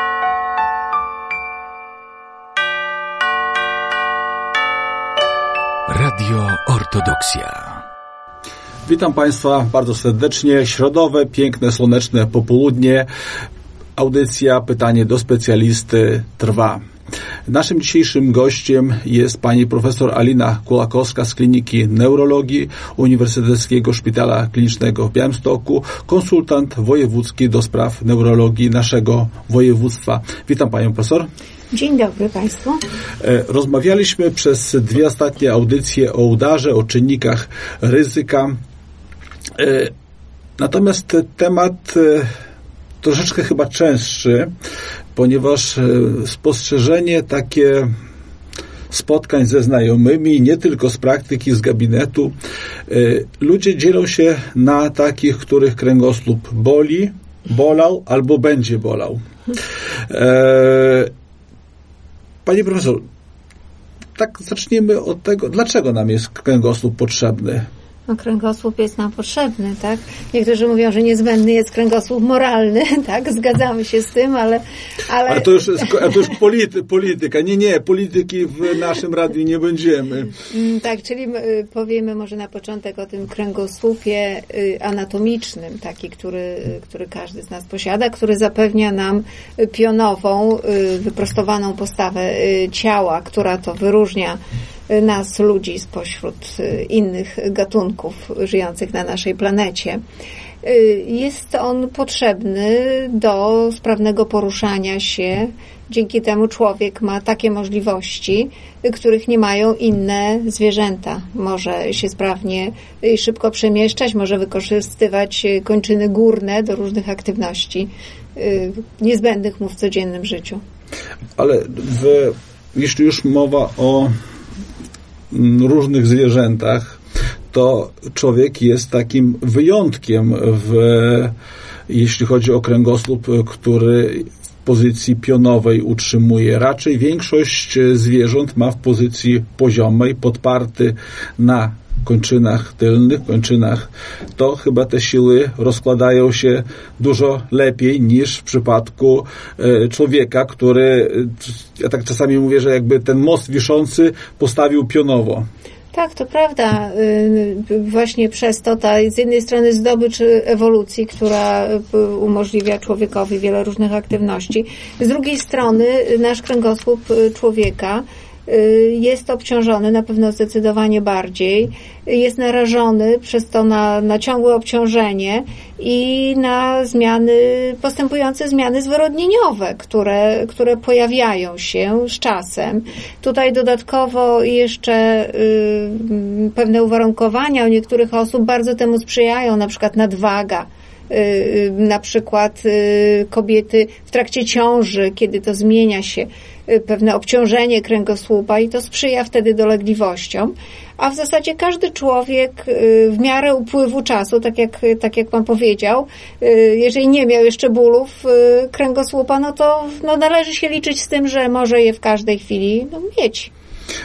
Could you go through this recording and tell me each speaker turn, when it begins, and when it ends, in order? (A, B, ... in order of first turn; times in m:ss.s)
0:05.9-0:07.8 A
0:08.9-0:13.1 B
0:14.0-0:16.8 B
0:17.5-0:31.3 B
0:31.7-0:32.8 C
0:33.2-0:38.6 B
0:39.5-0:39.9 B
0:40.6-0:42.3 B
0:43.0-0:44.5 B
0:45.1-0:47.9 B
0:48.9-0:52.3 B
0:52.9-0:59.2 B
1:00.1-1:01.1 B
1:02.4-1:03.0 B
1:04.2-1:07.7 B
1:08.1-1:16.1 C
1:15.3-1:20.4 B
1:20.5-1:40.0 C
1:40.6-2:00.6 C
2:01.4-2:04.1 B
2:05.3-2:07.0 B
2:07.5-2:11.3 B
2:11.9-2:35.4 B
2:35.9-3:33.5 C